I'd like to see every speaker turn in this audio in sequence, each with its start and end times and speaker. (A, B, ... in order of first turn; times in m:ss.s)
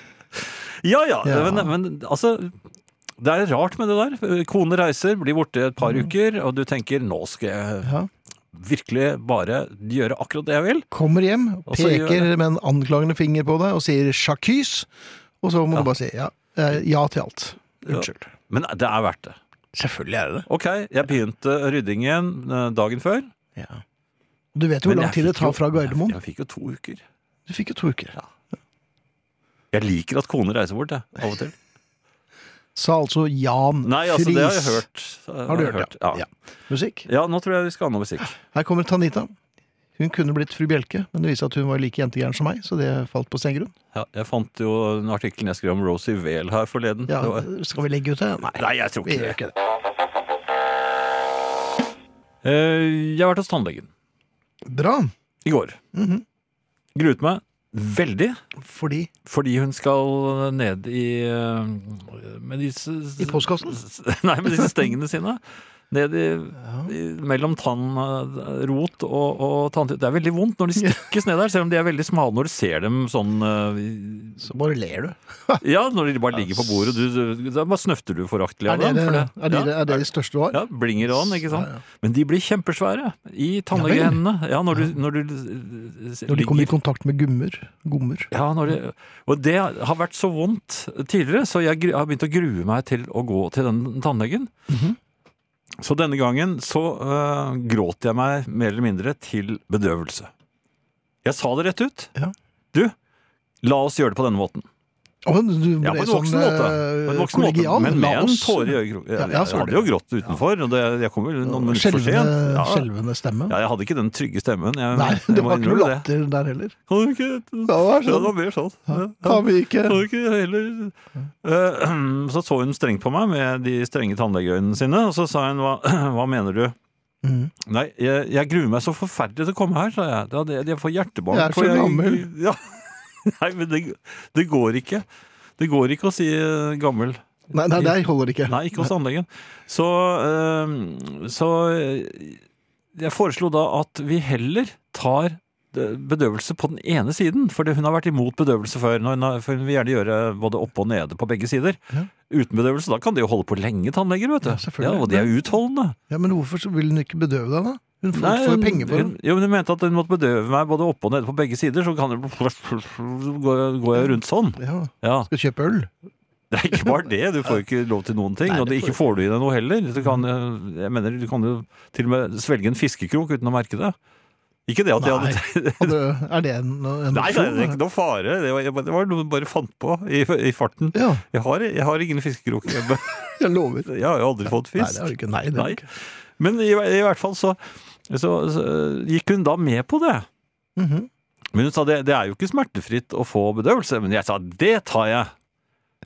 0:00.4-0:02.5 A
0:01.2-0:01.7 B
0:03.2-0:07.9 A
0:05.8-0:06.1 B
0:07.8-0:08.1 B
0:08.5-0:10.9 A
0:10.9-0:14.9 B
0:11.7-0:12.3 A
0:15.4-0:18.3 B
0:17.9-0:19.4 A
0:19.7-0:20.5 B
0:20.5-0:23.3 A
0:23.5-0:23.8 B
0:24.5-0:26.2 B
0:24.8-0:27.0 A
0:27.5-0:28.2 B
0:29.7-0:31.5 A
0:32.7-0:34.8 B
0:33.8-0:36.2 A
0:35.5-0:37.1 B
0:37.0-0:38.4 A
0:38.4-0:39.3 B
0:40.0-0:43.7 B
0:43.9-0:47.4 A
0:47.1-0:49.5 B
0:48.6-0:49.4 A
0:52.4-0:53.9 A
0:54.6-0:55.1 B
0:55.4-0:55.8 A
0:55.9-0:56.2 B
0:56.9-0:58.4 A
0:58.6-0:59.1 B
0:59.2-1:05.4 A
1:03.2-1:03.8 B
1:05.9-1:14.4 A
1:06.6-1:06.9 B
1:14.4-1:15.6 B
1:15.6-1:26.7 A
1:16.4-1:16.9 B
1:18.6-1:21.8 B
1:23.7-1:24.2 B
1:26.3-1:28.3 B
1:28.3-1:34.5 A
1:34.7-1:35.0 B
1:35.8-1:40.3 A
1:41.2-1:42.1 A
1:43.6-1:44.6 A
1:45.2-1:49.9 B
1:45.8-1:52.9 A
1:51.4-1:53.6 B
1:53.5-1:56.1 A
1:54.9-1:56.7 B
1:56.9-2:06.7 A
1:57.7-1:58.3 B
1:58.9-2:00.0 B
2:07.2-2:07.5 B
2:07.6-2:15.0 A
2:11.3-2:12.3 B
2:15.6-2:17.2 A
2:17.5-2:18.9 B
2:17.8-2:22.4 A
2:22.9-2:36.0 A
2:34.4-2:35.3 B
2:36.1-2:39.1 B
2:38.1-2:45.3 A
2:44.6-2:45.9 B
2:46.5-2:53.9 A
2:48.4-2:49.0 B
2:54.7-2:56.0 A
2:55.0-2:57.8 B
2:57.1-3:03.3 A
3:00.9-3:01.2 B
3:03.4-3:03.9 B
3:03.8-3:07.6 A
3:04.7-3:05.8 B
3:08.1-3:10.2 A
3:10.8-3:11.1 B
3:11.5-3:15.3 A